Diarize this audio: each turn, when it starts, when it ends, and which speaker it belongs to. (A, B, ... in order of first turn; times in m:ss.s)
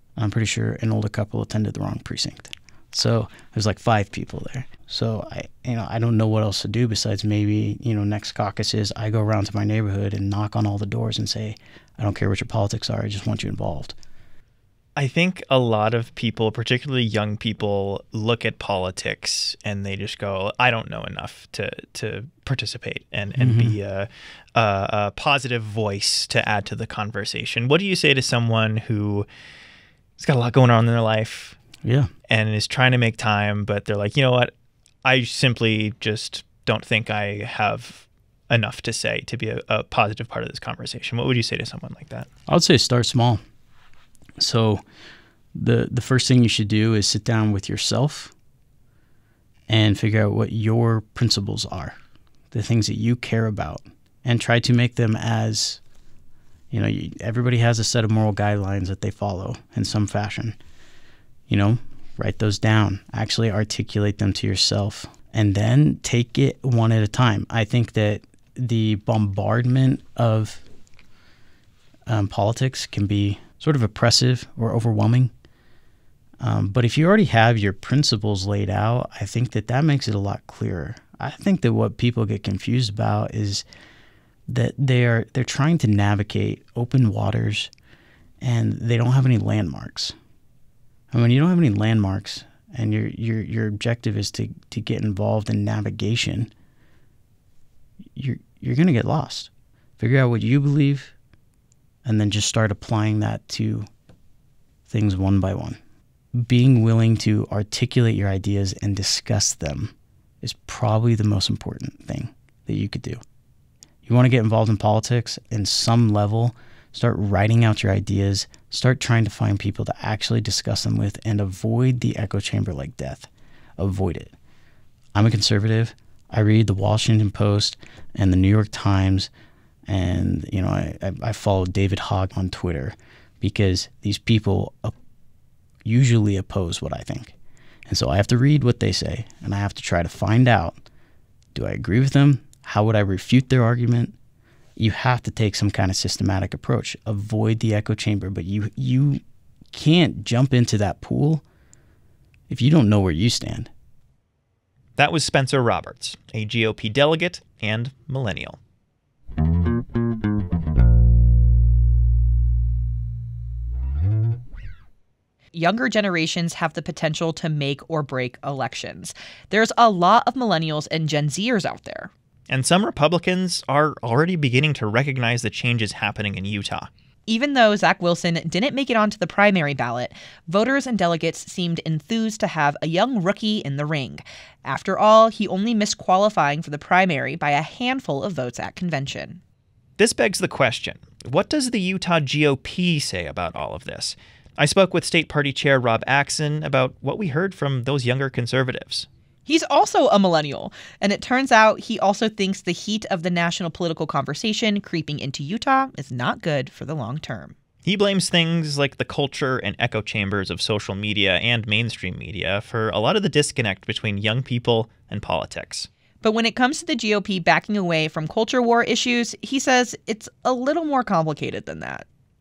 0:00.2-0:14.0 A
0:15.0-0:29.3 B
0:23.4-0:23.8 A
0:30.2-0:31.6 B
0:31.8-0:32.1 A
0:32.3-0:34.5 B
0:35.0-0:42.3 B
0:42.5-0:43.4 A
0:44.4-0:44.8 A
0:45.6-0:48.3 A
0:49.7-0:52.0 A
0:52.5-0:55.8 A
0:56.7-1:00.6 A
1:01.5-1:10.6 A
1:12.1-1:15.3 A
1:16.4-1:23.6 A
1:24.5-1:27.7 A
1:28.4-1:30.2 A
1:31.1-1:36.5 A
1:38.1-1:41.1 A
1:42.0-1:43.9 A
1:44.9-1:45.8 A
1:46.4-1:53.2 A
1:54.0-2:04.3 A
2:05.1-2:09.3 A
2:09.9-2:14.9 A
2:15.8-2:17.3 A
2:17.9-2:20.8 A
2:21.6-2:24.2 A
2:24.8-2:31.4 A
2:32.5-2:33.7 A
2:35.0-2:38.6 B
2:45.5-2:52.1 C
2:52.5-2:56.9 B
2:57.3-3:09.4 C
3:10.0-3:19.1 B
3:19.5-3:27.6 C
3:27.8-3:35.9 B
3:36.2-3:42.1 C